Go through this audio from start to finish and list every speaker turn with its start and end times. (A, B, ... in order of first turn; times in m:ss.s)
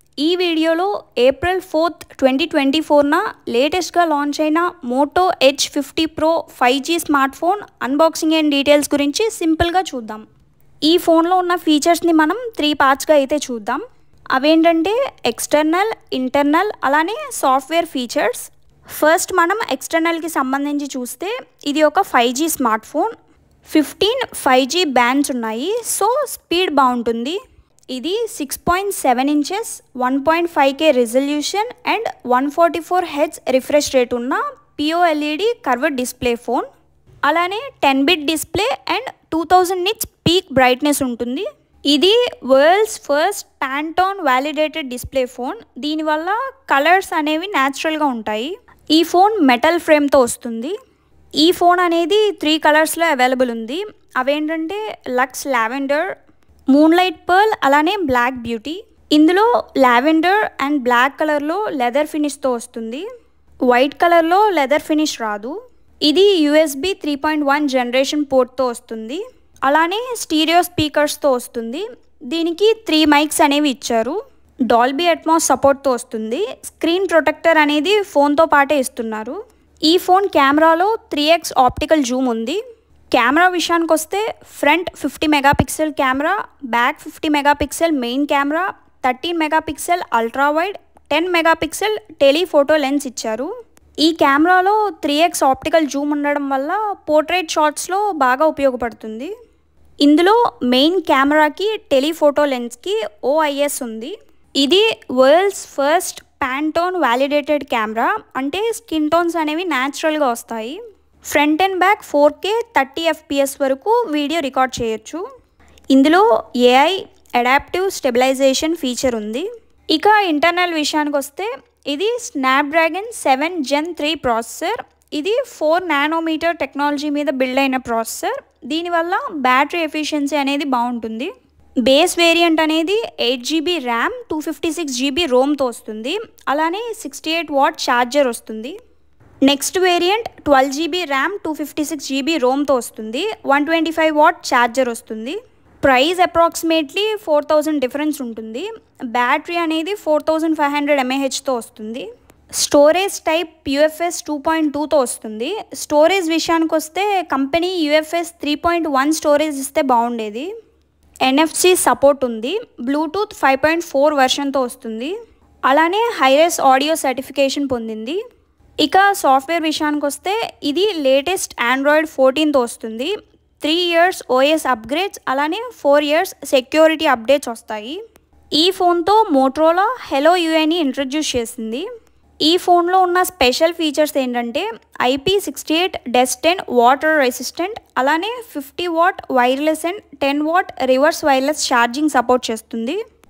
0:00.2-0:10.2 A
0:10.8-0:13.8 A
0:14.3-0:23.1 A
0:23.7-0:27.4 A
0:27.9-0:36.6 A
0:37.2-0:50.7 A
0:51.4-0:56.1 A
0:56.7-1:03.0 A
1:03.7-1:05.5 A
1:06.0-1:14.2 A
1:14.7-1:19.4 A
1:19.9-1:22.6 A
1:23.1-1:33.5 A
1:34.0-1:39.3 A
1:40.0-1:50.8 A
1:51.3-1:55.2 A
1:55.9-2:11.3 A
2:11.8-2:18.7 A
2:19.4-2:32.1 A
2:32.6-2:40.5 A
2:41.2-2:45.1 A
2:45.7-2:48.2 A
2:48.8-2:58.0 A
2:58.6-3:01.8 A
3:02.4-3:13.0 A